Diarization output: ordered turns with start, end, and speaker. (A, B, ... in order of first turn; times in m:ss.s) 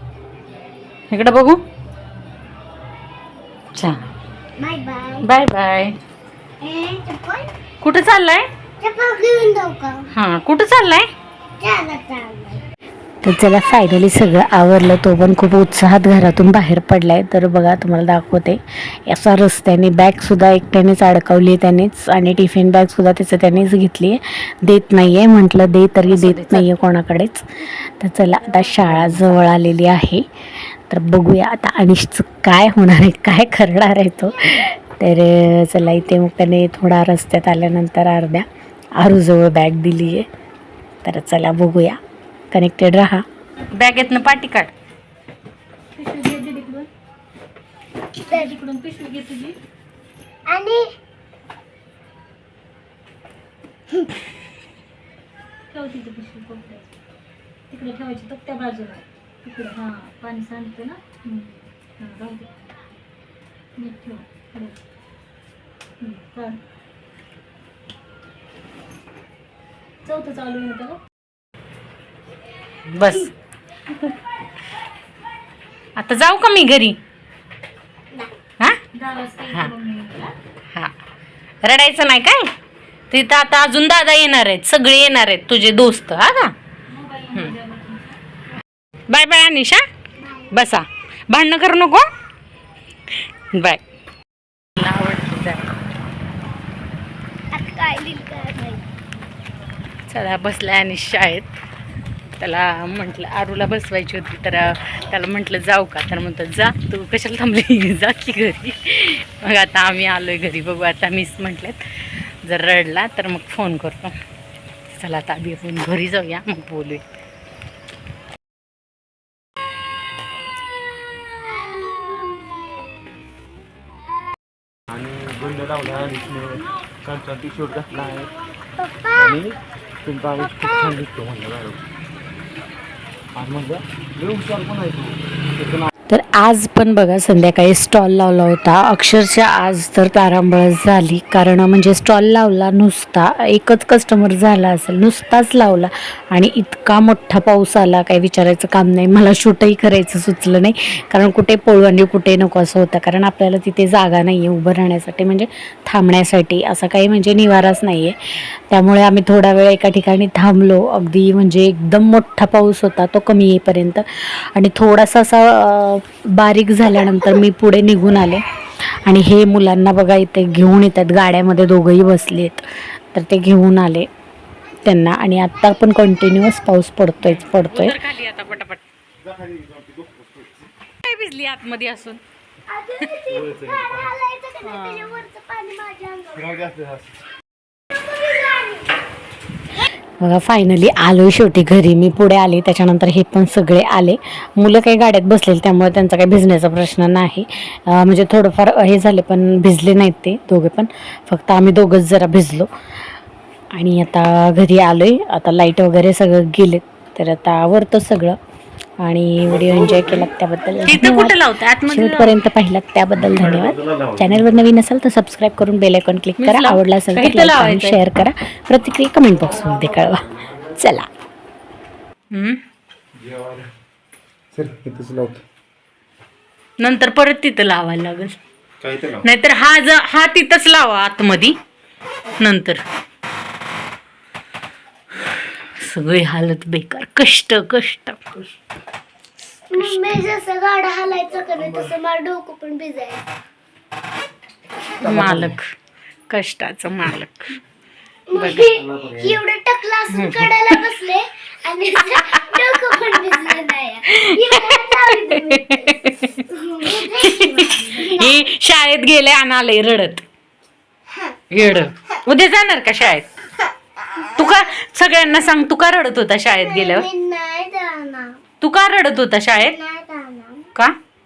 0:01.1-0:01.6 A
0:03.7-0:04.0 A
0:04.6-0:05.3 B
0:05.2-0:06.0 A
0:06.6-0:07.5 B
0:07.8-0:08.5 A
0:08.8-0:10.1 B
0:10.1-0:11.1 A
0:11.6-0:12.6 B
0:13.2-0:30.2 C
0:26.1-0:26.7 A
0:30.9-0:38.4 C
0:39.0-0:40.3 C
0:41.0-0:42.0 C
0:42.5-0:43.2 C
0:43.7-0:44.7 A
0:45.9-0:46.9 D
0:48.3-0:48.5 B
0:48.3-0:49.6 D
0:50.5-0:50.8 B
0:55.7-0:56.9 D
0:57.7-1:02.5 D
1:03.8-1:04.8 D
1:06.0-1:06.6 D
1:10.0-1:11.0 D
1:12.9-1:13.3 A
1:16.0-1:17.0 A
1:18.9-1:20.4 D
1:19.5-1:19.7 A
1:21.6-1:22.5 A
1:23.1-1:26.5 A
1:26.9-1:28.2 D
1:29.1-1:29.8 A
1:30.2-1:30.6 B
1:30.5-1:32.0 A
1:33.4-1:33.8 A
1:34.8-1:35.7 A
1:37.5-1:38.8 B
1:40.1-1:41.5 A
1:42.4-1:54.1 A
1:54.9-1:57.0 A
2:04.9-2:08.3 E
2:08.1-2:09.4 B
2:09.1-2:11.8 E
2:10.4-2:10.9 B
2:13.3-2:15.9 E
2:16.1-2:38.2 C
2:38.7-2:54.1 C
2:54.8-2:58.0 C
2:55.5-2:56.5 B
2:57.2-2:58.8 A
2:59.2-3:00.6 E
3:01.0-3:02.2 A
3:02.7-3:06.5 B
3:03.3-3:04.1 E
3:04.6-3:05.2 A
3:06.4-3:07.1 E
3:08.0-3:09.0 B
3:10.2-3:22.7 C
3:23.7-3:28.4 C
3:29.0-3:41.1 C
3:29.5-3:30.3 E
3:30.8-3:32.4 A
3:33.3-3:34.6 E
3:36.4-3:38.0 A
3:42.3-3:42.6 A
3:43.2-3:43.7 E
3:44.5-3:45.4 E
3:46.8-3:48.4 A
3:48.8-3:49.2 E
3:49.2-3:51.6 A
3:52.4-3:52.8 A
3:55.3-3:58.2 A
3:59.7-4:03.2 B
3:59.8-4:00.2 A
4:05.0-4:05.7 A
4:05.1-4:05.4 C
4:06.3-4:07.6 A
4:08.3-4:16.0 B
4:08.3-4:08.7 A
4:08.8-4:09.3 E
4:10.1-4:11.0 A
4:11.9-4:20.2 A
4:16.5-4:18.4 B
4:21.5-4:23.3 A
4:24.2-4:27.1 A
4:26.5-4:28.4 B
4:28.6-4:29.8 A
4:29.6-4:30.7 B